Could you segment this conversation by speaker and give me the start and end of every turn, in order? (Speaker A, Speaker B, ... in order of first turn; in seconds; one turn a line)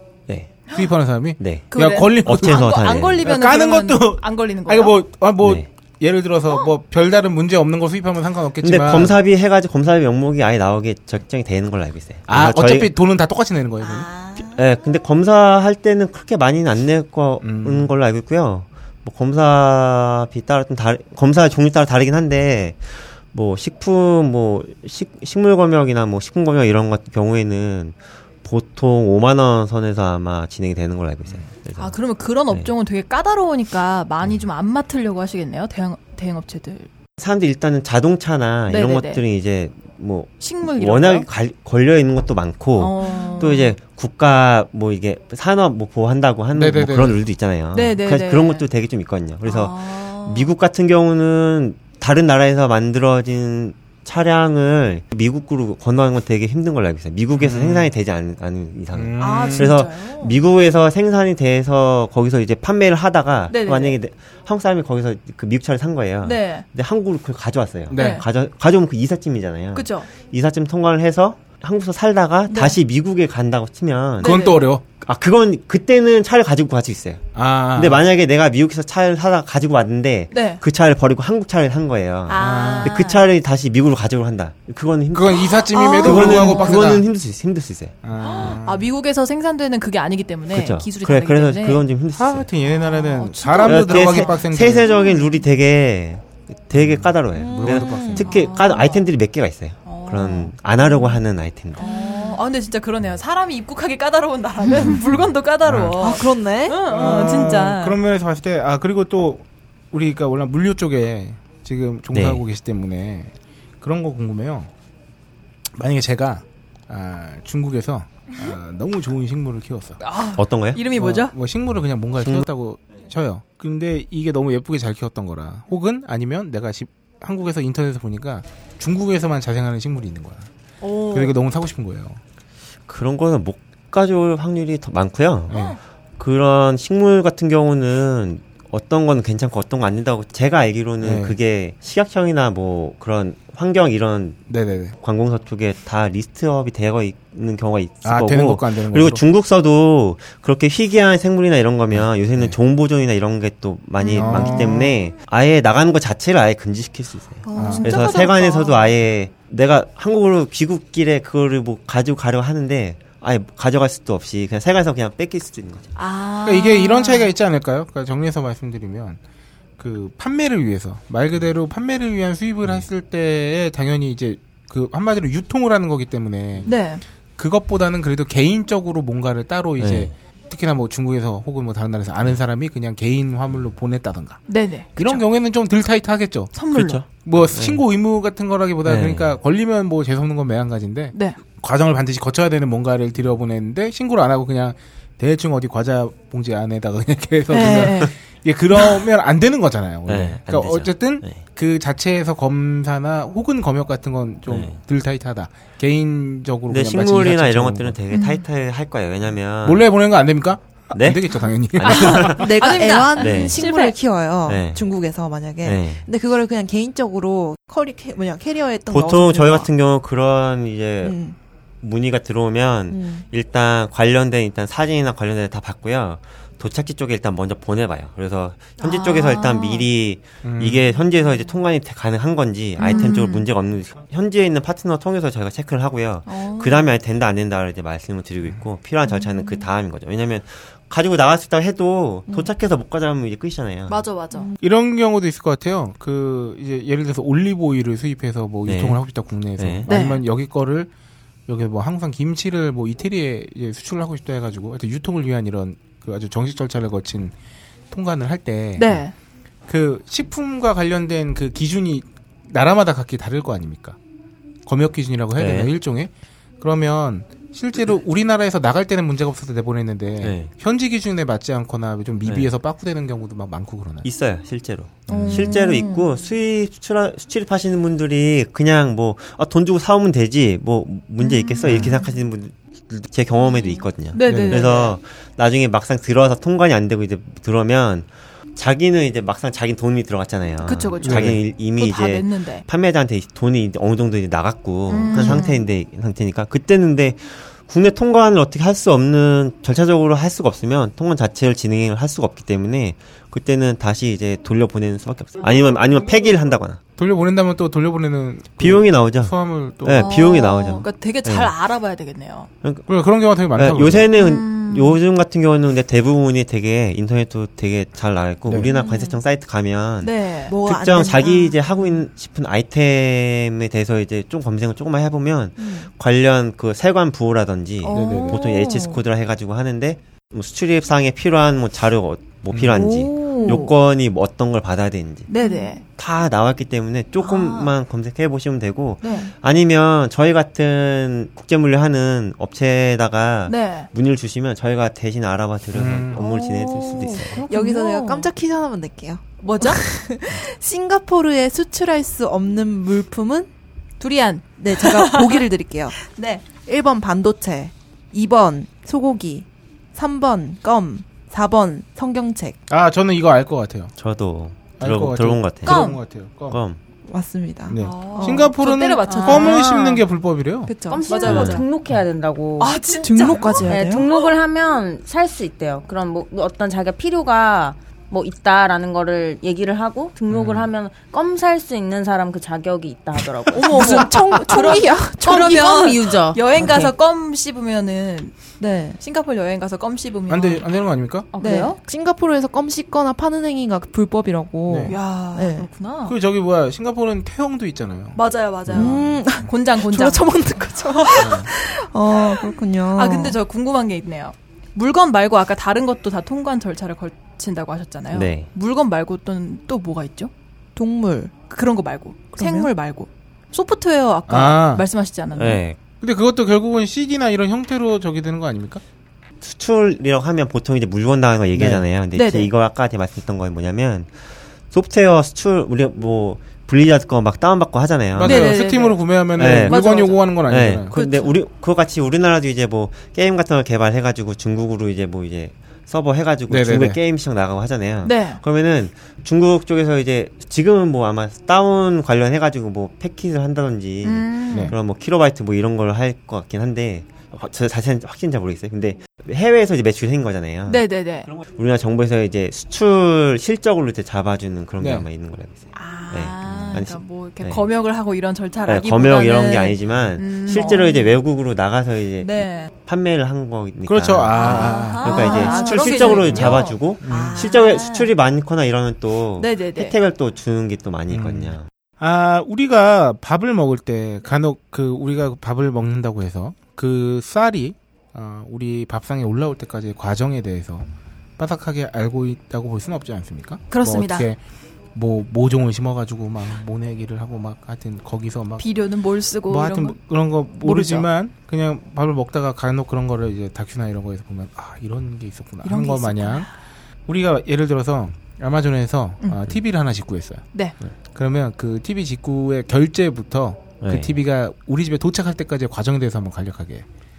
Speaker A: 0.3-0.6
Speaker B: 0.7-9.2
Speaker A: 1.4-3.3
Speaker C: 1.7-4.9
Speaker A: 5.4-5.7
Speaker A: 8.6-12.9
Speaker B: 12.3-14.1
Speaker C: 14.1-14.4
Speaker A: 14.5-31.9
Speaker B: 17.4-17.9
Speaker C: 31.8-36.9
Speaker A: 37.2-88.5
Speaker C: 38.7-39.2
Speaker C: 40.4-41.3
Speaker C: 42.8-43.7
Speaker B: 46.5-47.2
Speaker C: 47.7-48.6
Speaker C: 49.5-50.5
Speaker B: 57.4-57.9
Speaker B: 58.9-59.7
Speaker C: 59.2-60.4
Speaker C: 63.5-64.0
Speaker C: 66.2-66.6
Speaker B: 67.9-68.2
Speaker C: 67.9-68.2
Speaker C: 69.7-70.1
Speaker C: 72.5-72.8
Speaker C: 74.2-74.6
Speaker B: 74.2-74.8
Speaker B: 77.3-78.0
Speaker C: 80.3-80.6
Speaker C: 82.3-83.2
Speaker B: 82.4-83.0
Speaker B: 85.1-87.0
Speaker C: 85.7-86.9
Speaker B: 88.0-88.9
Speaker C: 88.2-91.8
Speaker A: 90.5-92.5
Speaker B: 92.2-94.9
Speaker C: 92.8-94.4
Speaker A: 93.6-101.8
Speaker B: 96.8-98.3
Speaker D: 97.3-98.3
Speaker C: 98.2-99.0
Speaker C: 99.8-101.2
Speaker C: 101.8-108.0
Speaker D: 101.8-102.4
Speaker B: 105.6-106.0
Speaker D: 106.0-107.5
Speaker B: 106.9-114.7
Speaker A: 112.1-112.4
Speaker B: 115.7-120.0
Speaker C: 120.0-121.3
Speaker A: 120.4-120.9
Speaker B: 121.0-130.5
Speaker A: 122.2-122.5
Speaker C: 130.8-131.3
Speaker B: 131.1-132.2
Speaker A: 132.9-135.5
Speaker B: 135.5-135.8
Speaker C: 135.5-135.8
Speaker A: 136.2-144.4
Speaker B: 141.0-141.3
Speaker B: 144.5-144.9
Speaker A: 145.0-165.9
Speaker B: 148.0-149.2
Speaker B: 151.9-152.5
Speaker C: 154.0-154.5
Speaker B: 154.1-154.9
Speaker D: 154.2-154.8
Speaker D: 157.4-158.0
Speaker B: 157.6-157.9
Speaker C: 157.6-158.9
Speaker C: 165.9-167.3
Speaker B: 166.4-169.2
Speaker B: 169.8-176.8
Speaker C: 176.7-177.0
Speaker B: 177.4-186.5
Speaker A: 179.8-180.1
Speaker C: 184.5-185.2
Speaker C: 186.5-187.0
Speaker A: 186.7-187.8
Speaker B: 187.1-208.0
Speaker A: 188.8-189.4
Speaker C: 191.1-191.4
Speaker C: 197.5-198.1
Speaker D: 197.5-197.9
Speaker A: 200.1-201.4
Speaker A: 204.5-204.8
Speaker A: 206.7-209.9
Speaker D: 208.1-208.4
Speaker B: 209.6-212.4
Speaker A: 210.9-212.5
Speaker C: 211.8-213.9
Speaker D: 212.4-219.7
Speaker A: 213.2-213.6
Speaker A: 214.4-214.8
Speaker A: 215.6-216.0
Speaker A: 218.9-221.2
Speaker D: 221.0-221.3
Speaker A: 221.8-244.0
Speaker D: 222.9-223.2
Speaker D: 228.8-229.8
Speaker C: 229.0-229.7
Speaker B: 230.4-230.8
Speaker C: 232.8-233.4
Speaker D: 232.8-233.2
Speaker C: 236.2-236.9
Speaker C: 243.9-244.5
Speaker D: 244.3-244.6
Speaker B: 244.6-250.9
Speaker A: 248.7-249.9
Speaker C: 249.9-250.2
Speaker B: 251.5-257.3
Speaker B: 257.9-259.0
Speaker C: 258.8-259.1
Speaker B: 259.7-264.0
Speaker B: 264.6-266.1
Speaker A: 265.3-265.7
Speaker B: 266.6-274.1
Speaker A: 270.2-270.5
Speaker A: 274.0-306.8
Speaker B: 275.1-275.6
Speaker C: 275.1-276.0
Speaker C: 281.2-282.0
Speaker B: 281.6-281.9
Speaker C: 284.1-285.0
Speaker B: 284.2-284.6
Speaker C: 290.6-292.6
Speaker B: 291.0-291.4
Speaker C: 294.9-295.6
Speaker B: 307.0-310.1
Speaker A: 308.6-311.5
Speaker C: 309.9-312.5
Speaker B: 312.9-314.1
Speaker A: 313.5-335.3
Speaker C: 314.1-315.0
Speaker D: 318.6-319.2
Speaker C: 320.0-320.6
Speaker D: 320.5-321.9
Speaker D: 325.6-325.9
Speaker C: 327.8-328.6
Speaker B: 327.9-328.4
Speaker D: 328.0-329.0
Speaker B: 332.5-332.9
Speaker D: 332.7-333.7
Speaker C: 333.1-333.7
Speaker C: 335.3-335.8
Speaker D: 335.4-335.8
Speaker A: 336.0-347.4
Speaker C: 337.2-337.7
Speaker C: 339.0-339.3
Speaker D: 339.0-339.3
Speaker C: 343.5-343.9
Speaker B: 345.7-346.2
Speaker D: 346.2-353.5
Speaker C: 347.3-348.3
Speaker C: 349.4-349.8
Speaker C: 354.0-355.4
Speaker D: 354.6-356.0
Speaker C: 356.0-356.4
Speaker D: 356.6-362.6
Speaker B: 362.7-363.9
Speaker A: 364.0-365.9
Speaker B: 364.8-366.6
Speaker C: 365.6-366.0
Speaker A: 366.5-366.8
Speaker D: 367.1-368.6
Speaker B: 367.7-370.7
Speaker C: 367.8-370.0
Speaker D: 369.1-369.6
Speaker E: 369.3-369.9
Speaker D: 370.7-371.0
Speaker E: 370.8-386.8
Speaker C: 370.9-371.7
Speaker A: 371.2-371.6
Speaker C: 372.6-373.7
Speaker D: 373.0-374.1
Speaker B: 380.3-380.7
Speaker C: 383.6-388.4
Speaker D: 383.6-385.9
Speaker D: 386.6-386.9
Speaker D: 388.6-389.0
Speaker C: 389.0-390.7
Speaker B: 390.3-391.3
Speaker C: 391.3-391.8
Speaker E: 391.3-391.7
Speaker D: 391.4-395.7
Speaker B: 394.7-395.0
Speaker C: 394.9-396.1
Speaker B: 396.1-399.2
Speaker C: 398.1-400.4
Speaker D: 398.7-403.4
Speaker C: 400.9-401.4
Speaker B: 401.2-401.5
Speaker C: 402.2-402.4
Speaker C: 402.9-410.3
Speaker A: 408.1-408.5
Speaker D: 410.8-411.3
Speaker C: 411.5-415.6
Speaker D: 412.4-412.7
Speaker B: 414.3-414.9
Speaker A: 415.3-415.8
Speaker B: 416.0-418.8
Speaker A: 419.4-424.1
Speaker B: 421.5-421.8
Speaker C: 422.1-422.5
Speaker A: 424.7-428.6
Speaker B: 428.1-430.9
Speaker C: 428.2-430.3
Speaker A: 429.4-457.6
Speaker C: 430.9-431.3
Speaker B: 436.5-437.0
Speaker C: 438.0-438.4
Speaker C: 444.0-444.7
Speaker C: 450.7-451.3
Speaker B: 454.8-455.1
Speaker C: 455.7-461.1
Speaker A: 458.6-471.7
Speaker C: 462.2-462.7
Speaker B: 463.9-467.4
Speaker C: 464.3-468.1
Speaker D: 465.1-465.8
Speaker C: 469.4-469.9
Speaker B: 471.1-480.9
Speaker B: 481.4-484.4
Speaker C: 483.7-484.3
Speaker B: 484.9-488.7
Speaker C: 488.6-490.0
Speaker B: 489.5-496.5
Speaker C: 490.6-491.1
Speaker C: 495.6-496.5
Speaker B: 497.1-500.4
Speaker B: 501.1-506.8
Speaker A: 503.8-504.2